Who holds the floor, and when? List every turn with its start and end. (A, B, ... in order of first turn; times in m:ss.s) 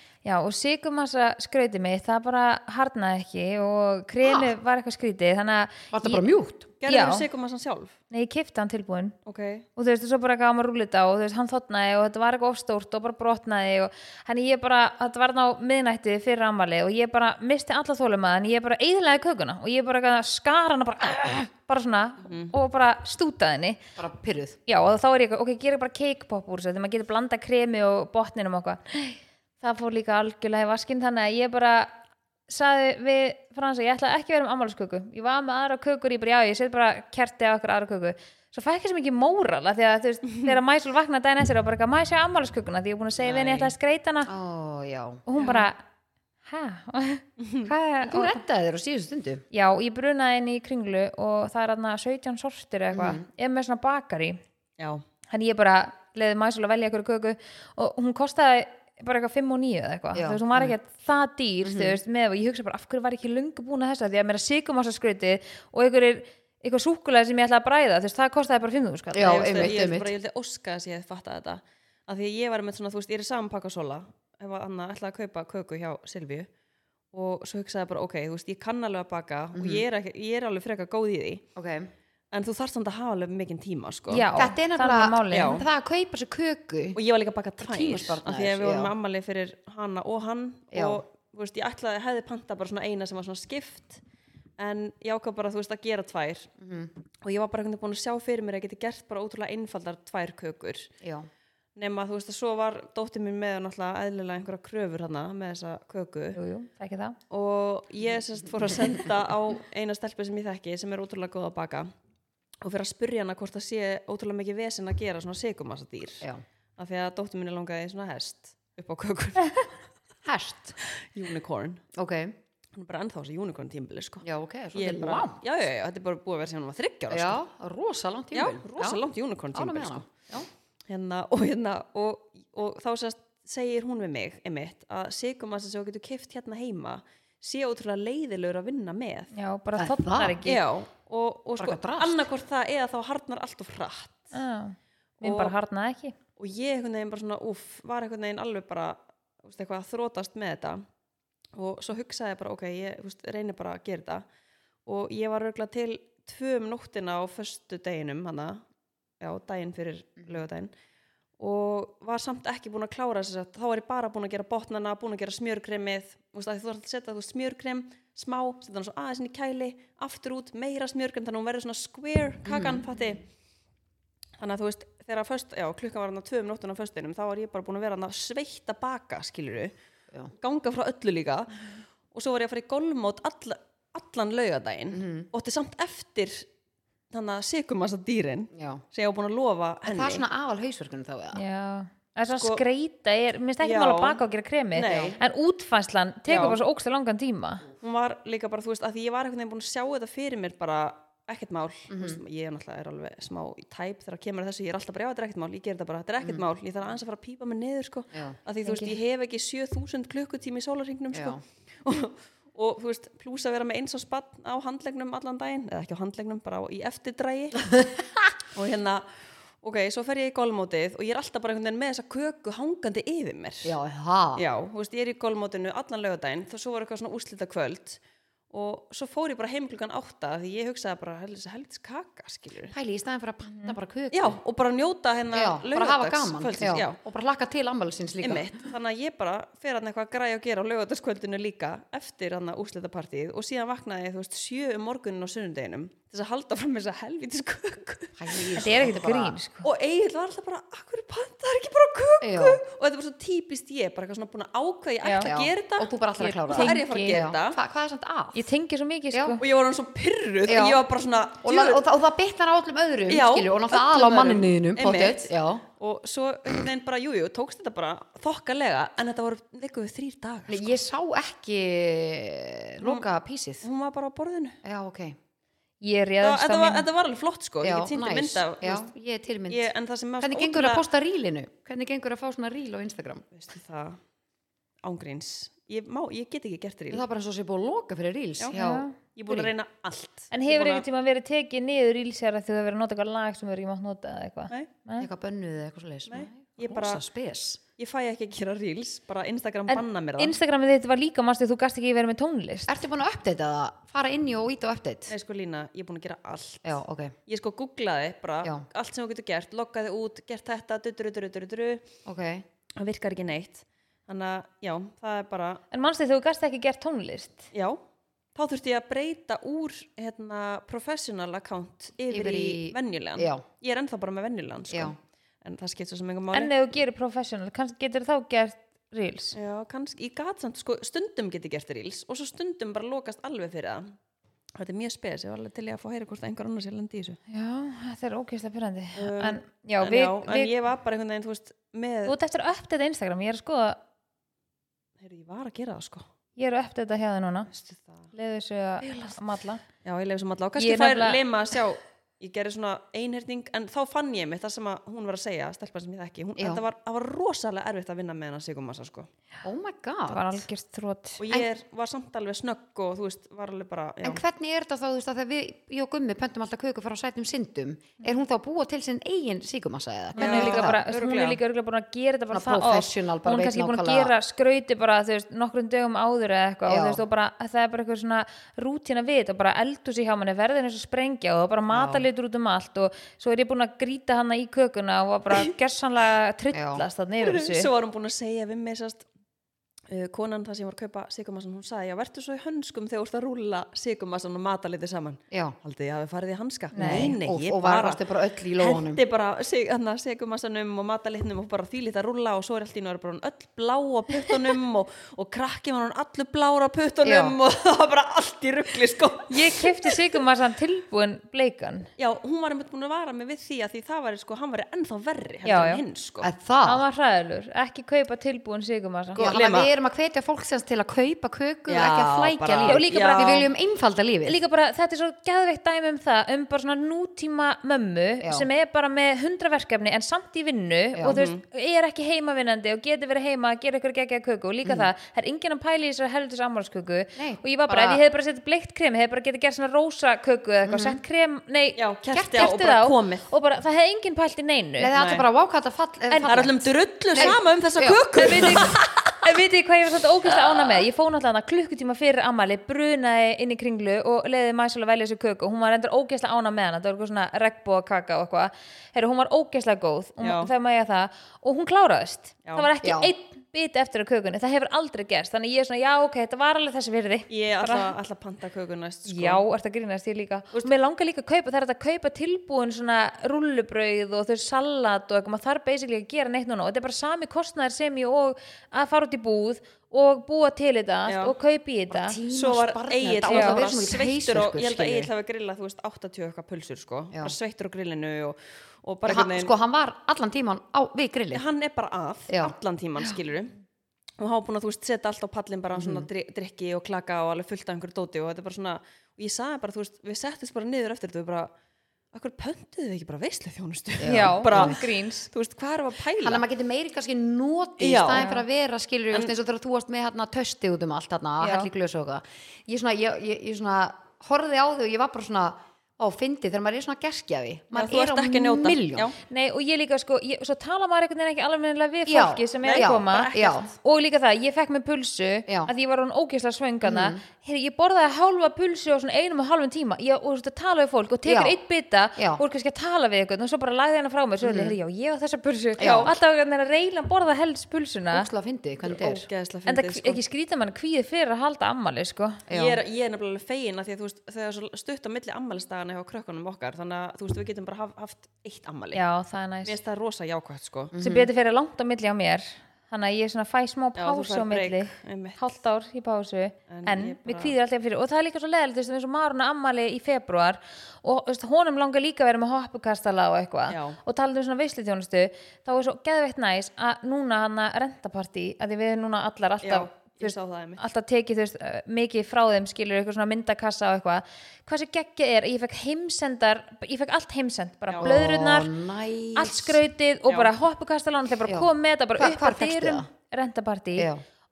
0:00.2-0:06.2 A
0:04.2-0:04.5 B
0:05.9-0:06.7 B
0:06.8-0:07.9 C
0:06.9-0:07.2 A
0:08.1-0:09.2 A
0:09.3-0:09.7 C
0:09.8-0:23.8 A
0:22.2-0:22.5 C
0:24.0-0:24.6 B
0:24.7-0:32.0 A
0:32.5-0:44.3 A
0:43.2-0:43.7 C
0:44.3-0:45.2 B
0:45.3-0:45.8 A
0:45.4-0:45.7 C
0:46.4-0:48.4 A
0:47.4-0:47.7 C
0:48.0-0:49.4 B
0:49.5-0:54.4 A
0:52.9-0:53.2 B
0:55.3-1:09.7 A
1:00.2-1:00.7 B
1:01.6-1:02.0 B
1:09.1-1:10.1 B
1:09.2-1:16.5 C
1:17.1-1:21.4 C
1:19.5-1:19.8 B
1:21.6-1:21.9 B
1:22.3-1:24.3 C
1:24.1-1:25.6 A
1:24.4-1:27.0 B
1:25.3-1:25.6 C
1:27.0-1:34.0 C
1:27.6-1:28.9 B
1:30.7-1:31.0 B
1:34.6-1:36.5 C
1:36.6-1:36.9 B
1:37.2-1:40.9 C
1:41.0-1:41.3 B
1:41.8-1:46.4 C
1:46.4-1:47.2 A
1:47.3-1:51.9 C
1:52.6-1:56.3 C
1:56.8-1:59.8 C
2:00.2-2:00.8 B
2:00.9-2:01.8 C
2:01.9-2:02.4 B
2:02.8-2:07.4 C
2:04.2-2:05.4 B
2:07.1-2:09.0 B
2:08.3-2:10.1 C
2:09.5-2:10.5 B
2:10.9-2:19.3 C
2:19.3-2:20.6 A
2:19.8-2:20.4 B
2:20.4-2:24.3 C
2:21.6-2:22.3 B
2:24.3-2:26.2 A
2:25.2-2:25.5 C
2:26.4-2:30.8 C
2:31.6-2:34.2 C
2:34.9-2:38.6 C
2:39.2-2:40.7 C
2:41.4-2:53.2 C
2:52.5-2:52.8 B
2:54.4-2:59.7 C
3:00.4-3:06.5 C
3:04.9-3:05.3 B
3:07.1-3:10.2 C
3:08.5-3:08.8 B
3:09.9-3:11.4 B
3:11.3-3:17.6 A
3:12.3-3:12.6 C
3:13.6-3:14.2 C
3:14.7-3:15.2 C
3:14.8-3:15.2 B
3:16.3-3:16.6 C
3:17.8-3:37.8 C
3:21.9-3:22.2 B
3:28.1-3:28.4 B
3:28.6-3:29.0 A
3:31.1-3:31.4 B
3:38.5-3:43.8 C
3:43.6-3:44.5 B
3:44.4-3:52.7 C
3:52.7-3:54.4 B
3:53.5-3:53.8 A
3:54.1-3:57.0 C
3:55.3-3:58.6 B
3:58.2-4:08.8 C
4:08.2-4:09.4 B
4:08.6-4:09.7 A
4:09.6-4:15.9 C
4:12.2-4:12.6 B
4:15.0-4:15.3 A
4:15.2-4:18.4 B
4:16.2-4:17.2 A
4:16.5-4:17.6 C
4:18.4-4:19.4 A
4:19.1-4:19.4 B
4:19.4-4:21.8 C
4:20.5-4:20.8 B
4:21.4-4:25.6 B
4:23.1-4:30.8 C
4:30.5-4:33.7 B
4:32.8-4:33.1 C
4:33.6-4:34.6 C
4:34.6-4:35.2 B
4:35.8-4:36.9 A
4:36.2-4:38.9 C
4:37.6-4:39.7 B
4:39.5-4:40.8 C
4:40.2-4:43.2 B
4:43.3-4:44.0 C
4:44.8-4:47.0 C
4:46.9-4:49.5 B
4:48.5-4:49.0 A
4:49.1-4:50.8 C
4:50.3-4:55.1 A
4:55.0-4:57.6 B
4:56.1-4:57.1 C
4:57.6-5:00.4 C
4:59.7-5:02.8 A
5:02.7-5:05.1 B
5:05.1-5:11.8 C
5:06.6-5:07.2 B
5:12.1-5:12.4 B
5:12.8-5:15.6 C
5:15.7-5:17.5 A
5:17.5-5:17.8 C
5:18.4-5:26.5 C
5:22.1-5:23.4 B
5:24.7-5:25.0 B
5:26.3-5:29.4 A
5:29.3-5:34.0 C
5:34.6-5:37.2 C
5:37.3-5:40.5 A
5:39.0-5:42.2 C
5:42.1-5:43.8 A
5:45.0-5:46.0 C
5:46.4-5:47.5 A
5:47.5-5:48.1 C
5:48.1-5:49.6 A
5:48.8-5:49.2 C
5:49.8-5:59.1 C
5:50.6-5:51.2 A
5:56.4-5:56.6 B
5:59.4-6:00.4 B
6:00.1-6:01.2 A
6:01.2-6:04.2 C
6:04.0-6:10.8 B
6:10.2-6:11.4 C
6:10.2-6:27.7 A
6:12.3-6:14.1 B
6:16.7-6:17.0 B
6:21.7-6:22.0 B
6:26.5-6:26.8 B
6:27.2-6:29.1 C
6:29.9-6:38.0 C
6:35.3-6:35.6 B
6:36.7-6:37.2 A
6:36.8-6:39.0 B
6:38.6-6:50.0 C
6:47.0-6:47.4 B
6:49.3-6:51.9 A
6:52.0-6:56.3 C
6:55.4-6:55.8 A
6:56.2-6:56.8 B
6:56.6-6:59.3 A
6:59.2-6:59.7 C
6:59.2-7:04.4 B
7:01.7-7:03.5 C
7:02.6-7:03.5 A
7:04.2-7:24.9 A
7:08.2-7:08.5 B
7:11.1-7:11.4 C
7:14.6-7:14.9 B
7:17.2-7:18.0 B
7:20.7-7:21.0 B
7:21.8-7:23.3 C
7:24.8-7:28.8 B
7:25.0-7:25.3 C
7:26.1-7:26.4 A
7:26.3-7:29.2 C
7:28.1-7:47.9 A
7:30.3-7:30.8 C
7:40.2-7:40.5 C
7:42.4-7:42.7 C
7:42.8-7:43.1 B
7:47.3-7:49.4 C
7:49.1-8:02.2 A
8:01.1-8:01.4 C
8:01.9-8:05.1 B
8:02.3-8:09.5 C
8:03.3-8:03.6 A
8:09.1-8:11.4 B
8:11.3-8:13.5 C
8:12.3-8:13.2 B
8:14.2-8:21.5 C
8:15.7-8:16.1 B
8:22.1-8:26.4 C
8:24.0-8:24.8 B
8:24.0-8:25.3 A
8:26.2-8:39.1 B
8:27.8-8:28.3 C
8:28.2-8:28.4 A
8:31.4-8:31.7 A
8:37.7-8:39.2 C
8:39.3-8:58.3 A
8:42.1-8:43.7 B
8:42.6-8:43.7 C
8:46.8-8:47.2 B
8:51.2-8:51.6 B
8:52.2-8:52.4 B
8:54.4-8:54.8 B
8:55.8-8:56.2 B
8:55.8-8:56.1 C
8:58.1-8:59.3 B
8:58.8-9:00.2 C
8:59.7-9:02.4 A
9:02.5-9:02.8 B
9:02.5-9:09.0 C
9:08.9-9:09.8 A
9:09.6-9:10.9 C
9:10.9-9:11.3 B
9:11.0-9:38.7 A
9:14.0-9:15.5 C
9:16.7-9:17.5 C
9:23.7-9:24.0 C
9:29.6-9:30.8 C
9:38.0-9:39.8 B
9:39.4-9:44.1 A
9:40.3-9:40.5 C
9:41.5-9:43.1 B
9:44.0-9:44.2 B